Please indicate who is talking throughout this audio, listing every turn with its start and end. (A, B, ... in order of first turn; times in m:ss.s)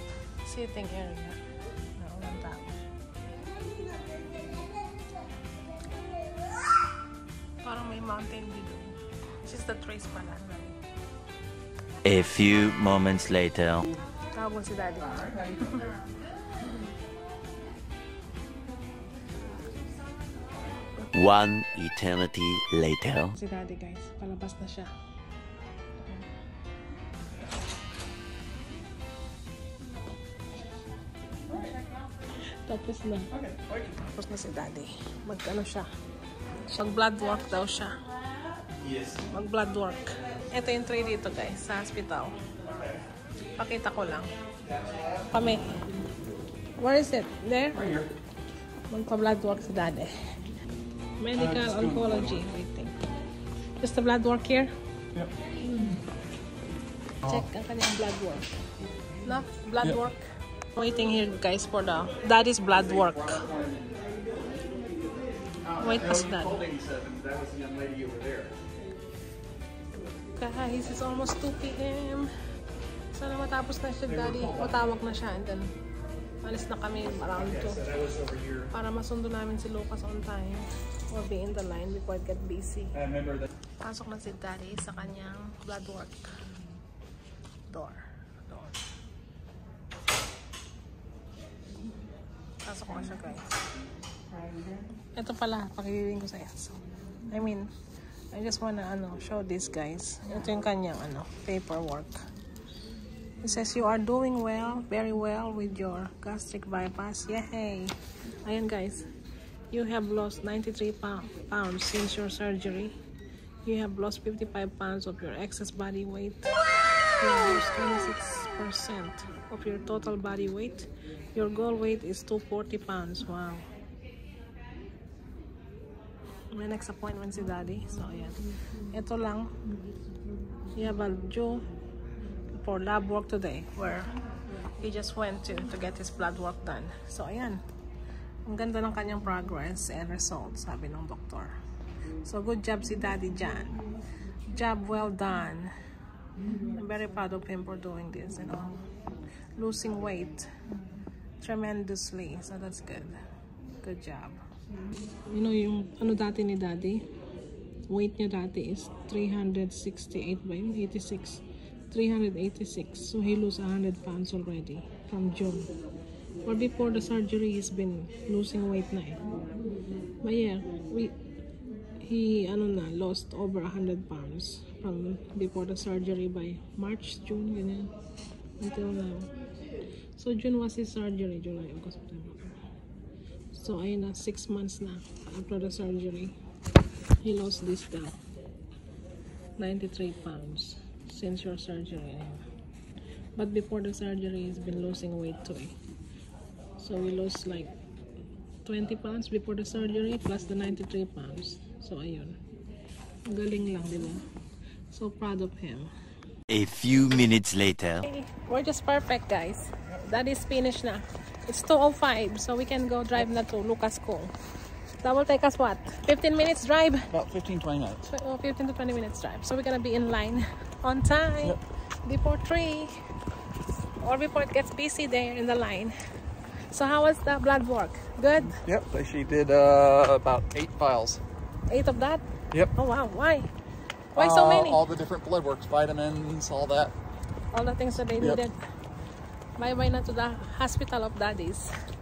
0:00.4-0:01.4 A
0:02.0-0:02.7 A
0:07.6-0:10.8 A
0:12.0-0:13.8 B
0:14.3-0:15.8 A
0:15.2-0:15.8 C
0:21.1-0:23.3 B
0:23.3-0:24.9 A
0:32.6-0:33.3 A
0:33.3-0:34.0 C
0:34.0-0:35.9 A
0:36.7-0:37.9 A
0:38.8-0:39.2 C
0:39.3-0:42.3 A
0:43.6-0:44.3 A
0:44.8-0:45.2 C
0:45.3-0:45.8 A
0:46.8-0:47.8 A
0:47.7-0:48.1 C
0:48.9-0:50.2 A
0:51.2-0:53.0 A
0:51.3-0:52.5 C
0:53.8-0:54.7 A
0:57.2-0:58.5 A
0:59.2-1:00.2 A
1:00.7-1:03.5 A
1:02.8-1:04.2 C
1:05.6-1:08.6 C
1:05.8-1:06.6 A
1:10.4-1:12.3 A
1:13.1-1:15.7 A
1:14.1-1:14.7 C
1:16.4-1:17.8 A
1:17.3-1:18.7 C
1:18.7-1:23.0 A
1:22.9-1:23.5 C
1:23.8-1:26.3 A
1:27.7-1:28.8 A
1:32.6-1:33.5 A
1:35.1-1:37.7 A
1:38.3-1:42.2 A
1:43.4-1:47.9 A
1:48.4-1:49.1 A
1:49.7-1:52.9 A
1:53.6-1:56.5 A
1:57.2-2:03.6 A
2:06.5-2:08.4 A
2:08.9-2:09.5 A
2:10.7-2:11.6 A
2:12.5-2:14.1 A
2:14.8-2:17.6 A
2:18.4-2:21.5 A
2:22.2-2:23.8 A
2:24.5-2:25.7 A
2:26.6-2:28.9 A
2:29.6-2:30.5 A
2:31.4-2:33.2 A
2:33.8-2:34.4 A
2:35.3-2:37.0 A
2:37.9-2:45.7 A
2:46.4-2:49.2 A
2:50.2-2:51.2 A
2:52.0-2:57.9 A
2:58.6-2:59.3 A
3:00.2-3:02.6 A
3:03.5-3:06.4 A
3:07.2-3:08.2 A
3:09.6-3:12.4 A
3:13.4-3:15.8 A
3:16.8-3:17.7 A
3:18.6-3:22.4 A
3:23.2-3:24.2 A
3:24.9-3:25.9 A
3:26.5-3:28.0 B
3:28.0-3:34.3 A
3:35.0-3:37.1 A
3:37.1-3:38.1 C
3:38.0-3:42.9 A
3:44.0-3:46.0 A
3:46.7-3:48.6 A
3:48.5-3:51.2 C
3:51.7-3:53.5 A
3:54.1-3:54.8 A
3:54.2-3:56.9 C
3:57.5-3:58.6 A
3:59.6-4:01.7 A